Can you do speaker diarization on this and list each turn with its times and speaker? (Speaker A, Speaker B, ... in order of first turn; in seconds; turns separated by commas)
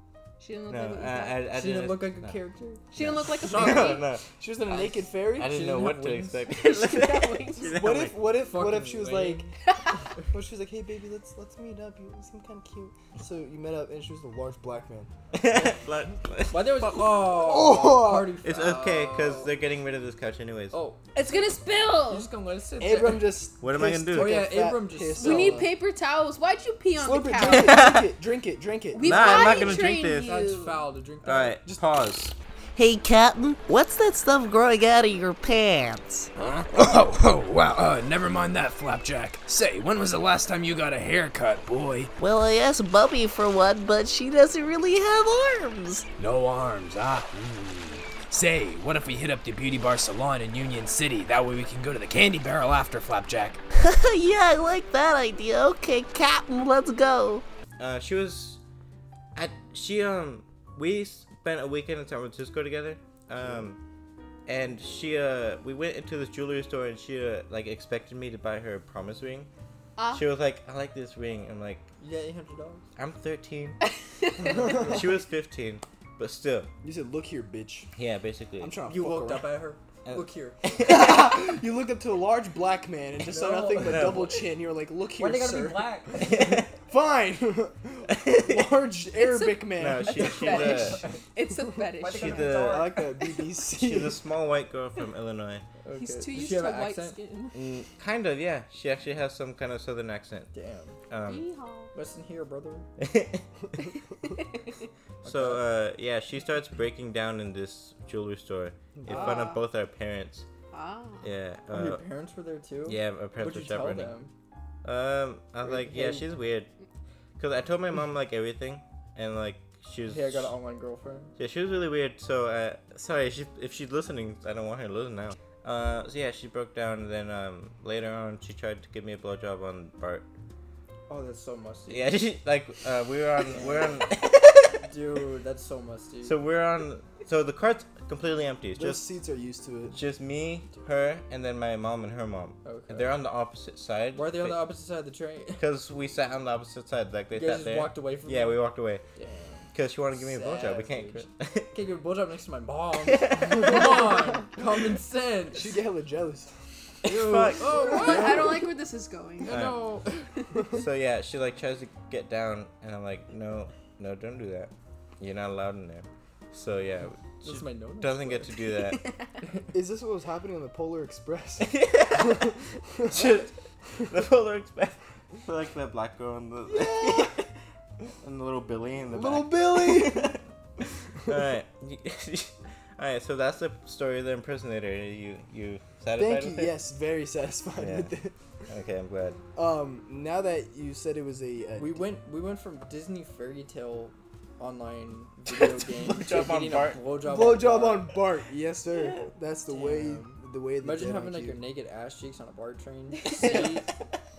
Speaker A: 0.4-1.4, Speaker B: 0.7-2.4, Speaker C: 1.5-4.1, Speaker A: 2.9-4.0, Speaker B: 3.0-4.3, Speaker D: 4.3-5.7, Speaker C: 4.7-6.4, Speaker B: 5.3-8.2, Speaker A: 6.5-7.8, Speaker D: 7.7-9.5, Speaker C: 8.3-9.5, Speaker A: 9.7-10.0, Speaker D: 10.3-15.1, Speaker B: 15.3-17.3, Speaker C: 16.5-19.5, Speaker D: 17.3-18.4, Speaker B: 18.4-20.8, Speaker C: 20.7-21.0, Speaker A: 21.1-22.3, Speaker C: 22.1-23.3, Speaker D: 22.8-25.7, Speaker B: 23.6-24.5, Speaker C: 24.1-25.7, Speaker A: 25.1-27.8, Speaker D: 26.9-29.7, Speaker B: 27.4-28.1, Speaker A: 28.9-30.8, Speaker B: 29.0-30.3, Speaker C: 30.1-31.6, Speaker B: 31.2-32.3, Speaker E: 32.8-36.3, Speaker F: 36.4-42.1, Speaker E: 42.2-46.1, Speaker F: 46.2-53.6, Speaker E: 53.7-57.4, Speaker B: 57.8-58.6, Speaker B: 59.3-63.8, Speaker B: 64.5-69.5, Speaker A: 70.0-70.2, Speaker B: 70.1-71.9, Speaker C: 72.0-72.8, Speaker B: 73.0-73.8, Speaker A: 74.2-74.6, Speaker D: 74.5-75.0, Speaker B: 74.5-76.7, Speaker D: 76.8-77.9, Speaker B: 78.0-78.8, Speaker D: 78.6-79.6, Speaker C: 78.8-80.8, Speaker B: 80.0-81.3, Speaker D: 80.8-90.7, Speaker C: 83.2-84.2, Speaker B: 83.8-84.4, Speaker C: 85.2-86.6, Speaker B: 86.1-86.7, Speaker B: 88.1-88.7, Speaker A: 89.1-92.6, Speaker B: 89.8-91.0, Speaker C: 90.5-91.2, Speaker C: 92.0-93.0, Speaker B: 92.0-93.0, Speaker D: 92.6-94.2, Speaker B: 93.7-95.6, Speaker C: 95.8-97.2, Speaker A: 96.0-97.6, Speaker B: 97.5-100.5, Speaker C: 100.5-101.0, Speaker B: 101.1-101.5, Speaker A: 101.2-101.9, Speaker C: 101.9-102.9, Speaker B: 103.0-103.4, Speaker A: 103.8-104.8, Speaker C: 105.2-105.6, Speaker B: 105.2-110.5, Speaker C: 109.1-109.5, Speaker A: 109.1-109.6, Speaker A: 110.7-111.3, Speaker B: 111.2-112.0, Speaker C: 111.7-114.3, Speaker B: 112.8-114.1, Speaker B: 114.8-116.7, Speaker C: 115.6-116.3, Speaker B: 117.4-120.5, Speaker C: 120.0-121.3, Speaker B: 121.4-130.3, Speaker C: 131.1-132.1, Speaker B: 131.9-134.8, Speaker C: 133.5-134.1, Speaker C: 134.8-136.4, Speaker B: 136.2-139.1, Speaker D: 138.7-140.0, Speaker B: 139.9-144.6, Speaker C: 142.6-143.1, Speaker C: 144.1-145.6, Speaker B: 145.6-149.0, Speaker C: 147.3-148.6, Speaker C: 149.2-155.8, Speaker B: 149.7-151.7, Speaker B: 153.1-154.1, Speaker D: 155.5-156.5, Speaker B: 157.0-158.4, Speaker C: 157.0-158.6, Speaker A: 157.7-159.6, Speaker C: 159.4-160.3, Speaker B: 159.5-159.9, Speaker B: 160.7-169.0, Speaker C: 167.4-168.6, Speaker A: 168.9-169.4, Speaker C: 169.4-169.7, Speaker D: 169.7-173.4, Speaker B: 171.6-172.5, Speaker B: 173.1-177.5, Speaker D: 176.7-177.3, Speaker B: 178.2-180.4, Speaker D: 179.1-180.4, Speaker B: 181.2-186.7, Speaker D: 186.2-188.3, Speaker B: 187.8-188.1, Speaker B: 188.7-189.4, Speaker D: 189.5-192.0, Speaker C: 191.8-198.1, Speaker B: 195.9-197.0, Speaker D: 197.2-201.6, Speaker C: 199.7-203.9, Speaker A: 203.1-203.8